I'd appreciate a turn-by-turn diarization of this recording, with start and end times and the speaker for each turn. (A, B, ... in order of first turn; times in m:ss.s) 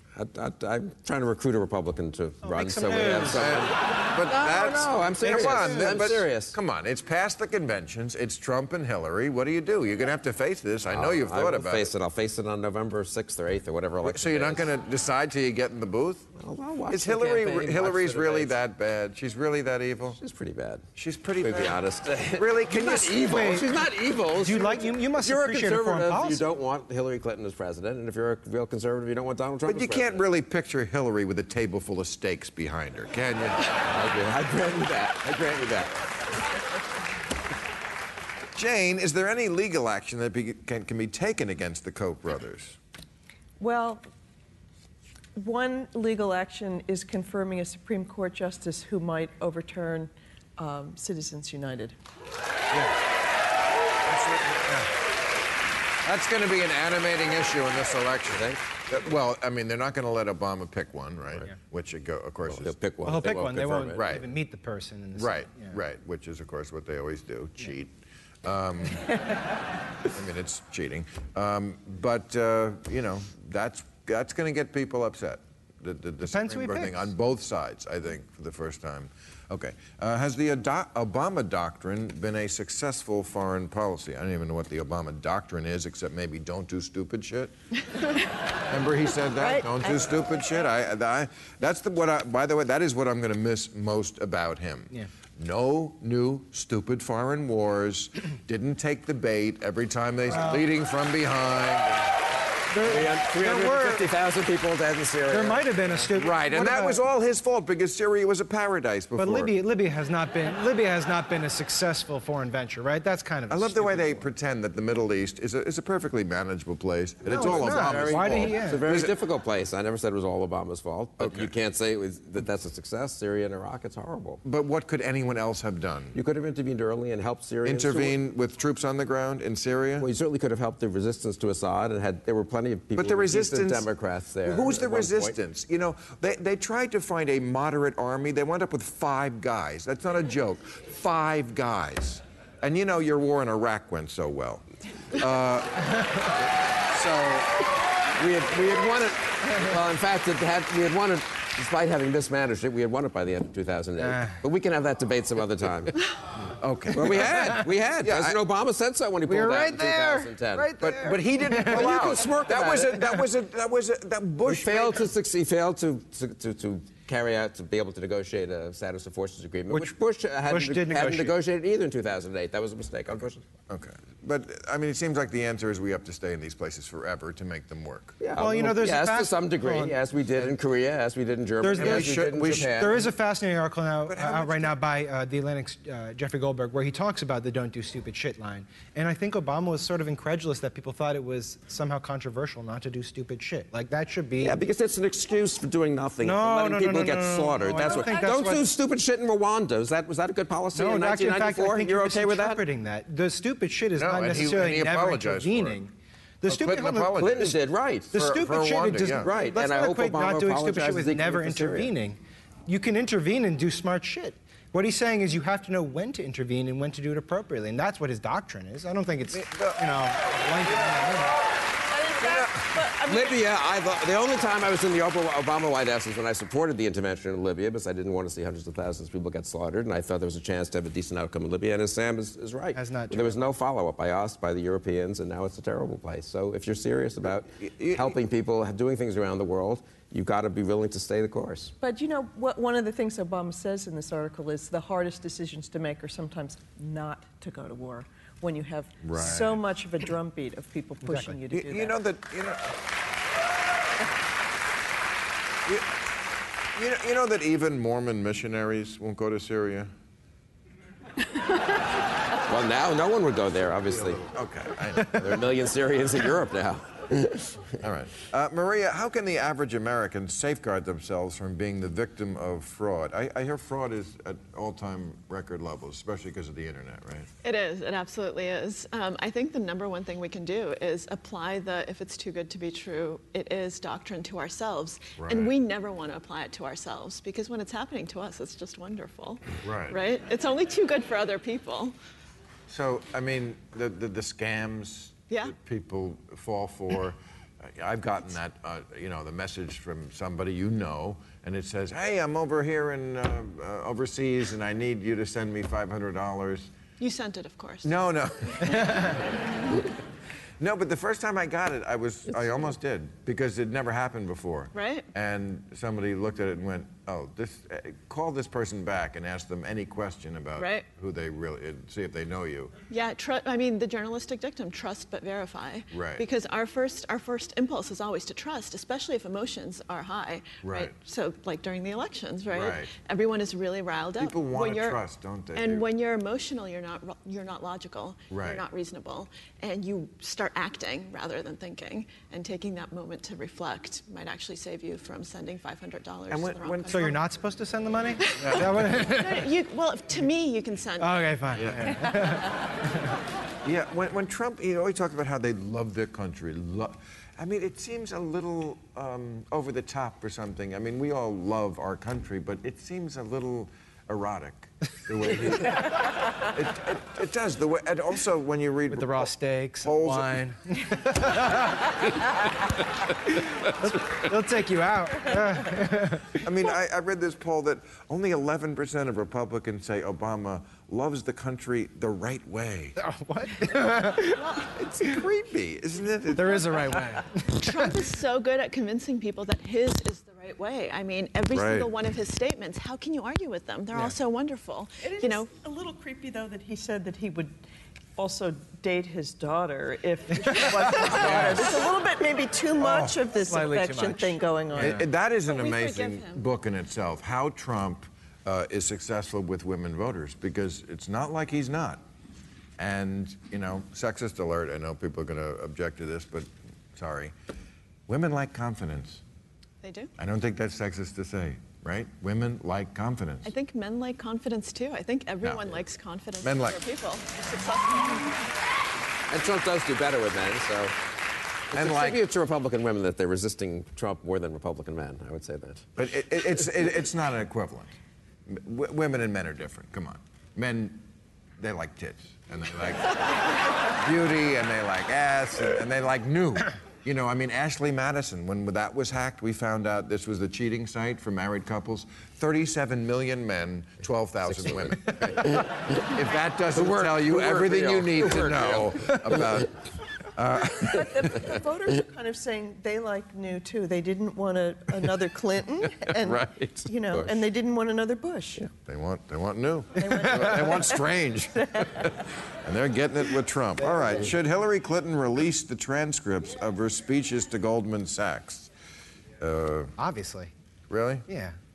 0:00.1-0:06.6 A
0:02.4-0:03.6 B
0:03.3-0:11.9 C
0:05.2-0:06.1 B
0:10.9-0:14.7 A
0:14.0-0:16.3 C
0:16.4-0:18.6 A
0:16.9-0:20.2 C
0:20.2-0:20.8 A
0:21.0-0:23.5 C
0:21.4-0:30.2 A
0:23.2-0:23.8 B
0:24.4-0:26.4 B
0:29.6-0:33.7 C
0:33.8-0:36.0 A
0:38.5-0:42.8 C
0:43.6-0:44.0 D
0:45.4-0:52.0 D
0:52.7-0:53.0 C
0:54.0-0:54.9 C
0:56.0-1:03.3 C
0:58.3-0:58.6 A
1:02.5-1:04.1 A
1:03.0-1:05.8 B
1:03.9-1:04.3 C
1:05.2-1:07.9 C
1:08.4-1:09.2 C
1:10.1-1:27.5 C
1:16.2-1:17.1 B
1:28.7-1:42.1 C
1:40.3-1:40.7 B
1:42.7-1:44.1 B
1:42.8-1:46.0 A
1:45.3-1:47.0 B
1:46.1-1:49.6 C
1:49.2-1:54.3 B
1:53.5-1:59.1 C
1:57.3-1:58.8 B
1:57.3-2:04.4 A
2:01.2-2:01.5 C
2:04.4-2:06.2 C
2:06.1-2:08.2 A
2:07.6-2:10.1 C
2:10.0-2:15.4 A
2:12.9-2:13.9 C
2:14.4-2:26.3 C
2:26.9-2:27.5 C
2:28.2-2:36.0 A
2:36.6-2:38.4 C
2:36.9-2:40.7 A
2:39.2-2:42.0 B
2:40.8-2:45.1 C
2:41.6-2:43.2 A
2:44.4-2:53.4 A
2:49.7-2:51.4 B
2:53.7-2:58.2 C
2:58.2-3:03.1 A
2:58.4-3:00.0 B
3:01.6-3:14.6 B
3:01.7-3:02.7 C
3:04.1-3:04.7 C
3:14.4-3:22.6 A
3:16.2-3:18.6 B
3:20.7-3:27.2 B
3:23.9-3:25.8 C
3:26.5-3:27.5 C
3:27.2-3:28.2 A
3:28.1-3:41.4 B
3:28.1-3:29.3 C
3:29.2-3:31.9 A
3:39.3-3:39.8 C
3:41.9-3:43.4 E
3:42.2-4:01.7 A
3:52.7-3:53.4 B
3:57.6-3:58.1 C
4:01.8-4:11.9 D
4:09.0-4:09.6 C
4:11.0-4:11.4 B
4:11.5-4:12.6 C
4:16.8-4:19.9 C
4:22.4-4:24.2 A
4:23.9-4:25.4 C
4:25.2-4:27.8 A
4:27.8-4:37.3 C
4:37.4-4:52.0 E
4:45.2-4:45.5 C
4:49.6-4:50.0 C
4:52.7-5:06.7 C
4:55.3-4:55.5 E
5:07.0-5:08.0 E
5:07.8-5:09.3 C
5:10.6-5:22.7 C
5:14.7-5:15.1 E
5:20.6-5:20.9 E
5:22.9-5:35.0 E
5:25.9-5:26.2 C
5:30.6-5:30.9 C
5:32.5-5:32.9 C
5:34.2-5:35.9 C
5:35.5-5:47.2 E
5:38.3-5:38.6 C
5:46.3-5:47.1 C
5:46.9-5:49.5 B
5:48.2-5:48.6 E
5:48.4-5:49.0 C
5:49.1-5:51.1 E
5:51.0-5:53.1 B
5:51.5-5:52.0 C
5:53.6-6:10.5 C
6:08.9-6:11.7 B
6:13.6-6:16.4 B
6:16.4-6:23.0 C
6:23.0-6:24.5 B
6:24.6-6:27.0 C
6:26.3-6:27.9 B
6:27.5-6:35.5 E
6:31.5-6:31.9 C
6:35.0-6:37.5 D
6:38.2-6:45.0 D
6:40.5-6:41.6 B
6:41.2-6:41.6 C
6:42.9-6:45.1 B
6:44.8-6:52.0 C
6:45.4-6:46.4 E
6:52.8-6:57.3 C
6:58.1-6:59.2 C
6:59.8-7:00.1 E
7:00.2-7:03.5 C
7:03.4-7:08.4 E
7:05.4-7:05.8 C
7:06.4-7:06.8 C
7:09.3-7:10.9 A
7:11.7-7:15.9 A
7:11.7-7:12.2 C
7:16.0-7:17.9 C
7:18.5-7:21.0 C
7:21.6-7:39.7 C
7:34.5-7:35.7 A
7:36.7-7:39.6 A
7:40.4-7:41.5 C
7:41.0-7:48.6 D
7:46.4-7:47.4 A
7:48.8-7:58.7 C
7:50.0-7:52.1 D
7:50.2-7:50.5 B
7:53.8-7:54.2 B
7:59.4-7:59.9 C
8:00.0-8:00.5 B
8:00.9-8:01.2 C
8:01.3-8:01.5 B